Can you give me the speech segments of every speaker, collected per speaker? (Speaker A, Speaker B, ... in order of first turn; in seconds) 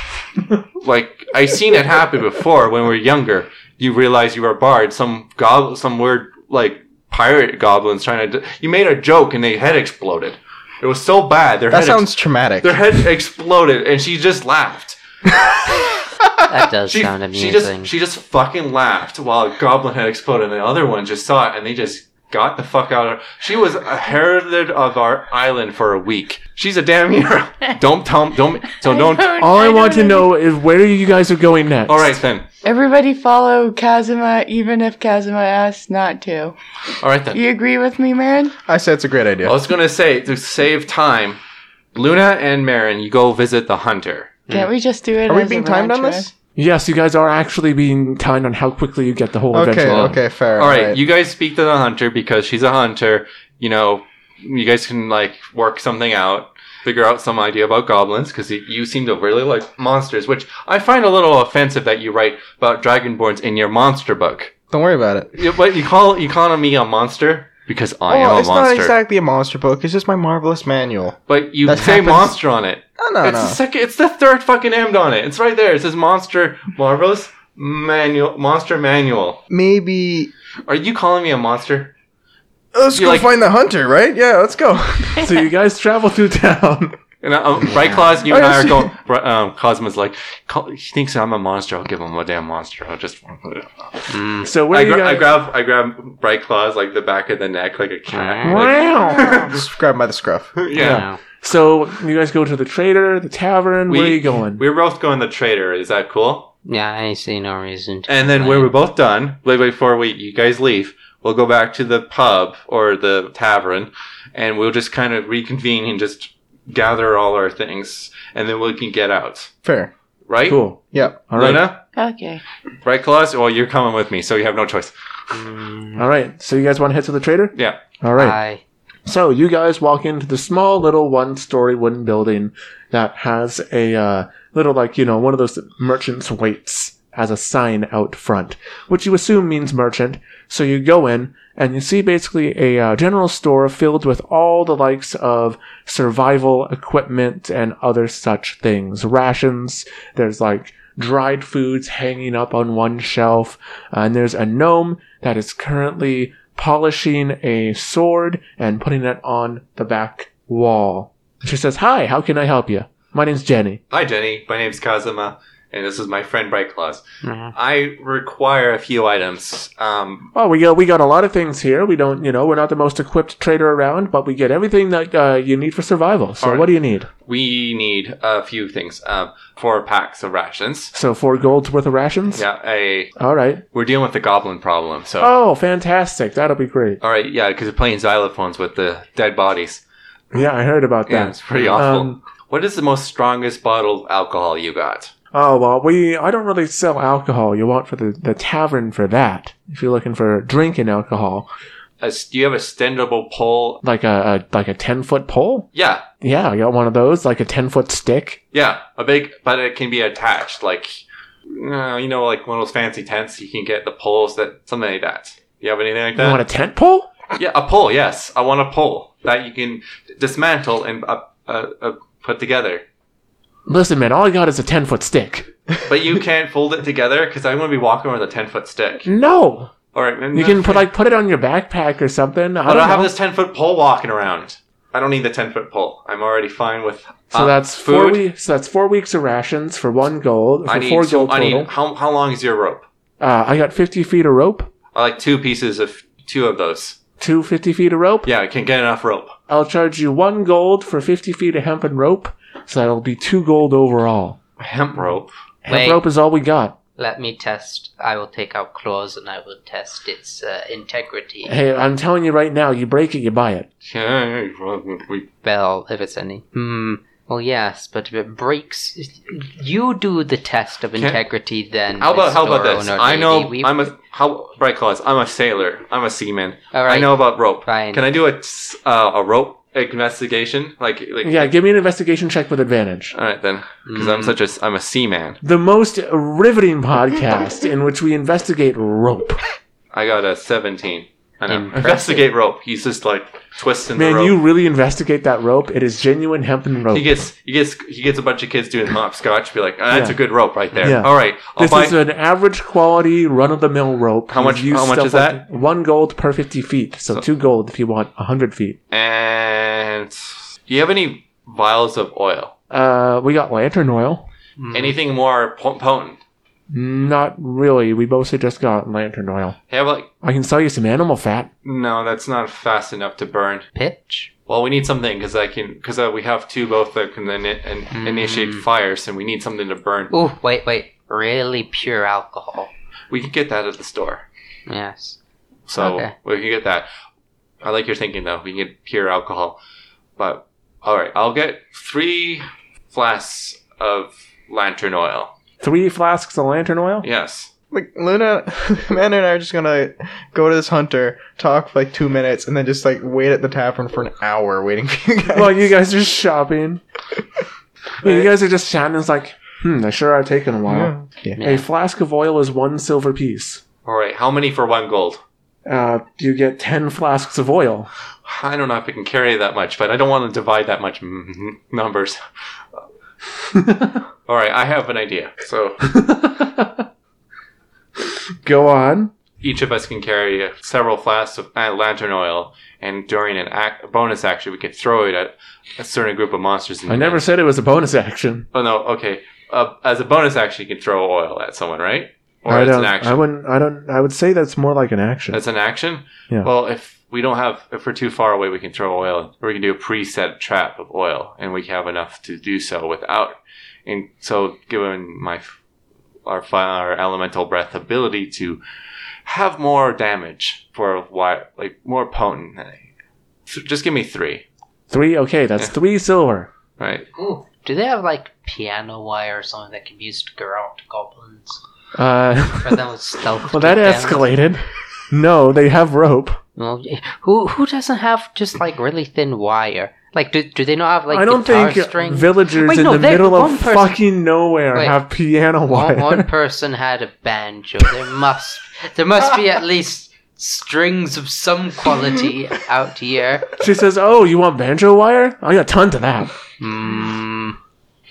Speaker A: 0.8-15.0, 16.9-29.4, 31.9-32.5, 37.0-37.4, 39.4-41.4, 41.9-44.4, 50.6-64.5, 65.3-69.0, 71.3-79.4, 80.7-81.9, 82.9-83.3, 87.2-93.9, 94.7-99.6, 100.6-101.0, 103.9-106.5, 108.1-119.5, 120.3-120.7, 121.3-121.8, 122.8-125.4, 127.5-127.8, 163.9-167.0, 167.5-170.3, 176.4-176.7, 177.2-180.9, 182.3-183.2, 183.7-185.3, 187.0-189.8, 191.1-195.1, 202.0-203.8, 205.7-206.0, 208.5-211.0, 211.5-216.4, 217.4-222.8, 225.8-229.1, 229.9-230.9, 232.7-238.2, 240.7-242.8, 244.9-247.0, 248.2-249.4, 254.6-255.3, 263.8-265.3, 272.0-281.5, 283.1-285.4, 289.9-294.4, 296.9-302.0, 304.3-305.4, 308.9-310.1, 310.7-312.5, 314.7-316.2, 319.7-320.1, 321.6-323.6, 324.5-330.1, 333.1-334.3, 335.7-336.9, 337.6-339.6, 340.2-345.3, 347.0-347.5, 358.0-358.3, 363.9-365.2, 368.2-372.2, 374.3-375.8, 379.4-387.2, 388.5-393.2, 395.3-405.5, 406.3-408.6, 409.2-412.9, 413.5-414.4, 416.8-417.1
Speaker B: 11.7-13.0, 38.7-39.6, 45.3-46.3, 49.5-51.0, 64.7-65.3, 68.1-72.4, 73.0-73.6, 79.5-80.3, 82.7-85.3, 88.3-88.9, 99.1-100.6, 119.6-119.9, 347.7-355.7, 360.7-361.4
Speaker C: 16.5-17.9, 87.7-88.0, 94.1-94.5, 98.1-98.7, 100.7-101.2, 106.7-108.7, 128.2-128.6, 167.2-167.6, 191.5-191.8, 255.7-256.0, 257.0-261.6, 265.4-273.9, 276.7-278.0, 283.9-284.4, 291.5-292.3, 314.6-315.0, 323.7-324.3, 327.9-328.6, 330.1-332.7, 334.7-335.2, 335.8-336.1, 361.4-361.6, 417.1-421.6, 422.6-424.4, 426.6-434.0, 434.7-435.0, 435.7-443.5, 446.6-447.6
Speaker D: 28.8-30.3, 32.6-36.6, 37.3-38.5, 44.5-46.3, 122.0-122.4
Speaker E: 29.4-32.2, 46.6-50.2, 85.2-87.0, 94.4-95.3, 98.4-99.3, 100.8-104.6, 120.5-121.7, 126.0-128.4, 129.1-163.8, 170.3-177.1, 180.9-182.4, 183.2-183.6, 185.2-187.0, 190.3-192.2, 195.3-201.5, 203.8-205.7, 206.2-208.4, 216.2-217.1, 223.7-225.5, 229.1-229.7, 230.3-233.1, 237.3-241.7, 243.2-244.7, 247.2-248.3, 249.5-254.4, 255.7-256.8, 261.5-263.7, 281.2-283.1, 285.4-289.4, 294.0-297.2, 299.9-300.2, 300.8-308.8, 312.7-314.3, 316.7-319.6, 320.2-321.5, 345.6-347.1, 355.3-356.8, 358.0-363.6, 365.6-367.9, 373.6-374.0, 375.8-376.9, 378.4-379.1, 386.9-388.5, 392.5-395.4, 414.9-416.5, 421.9-422.9, 423.5-426.4, 431.1-436.3, 443.6-446.3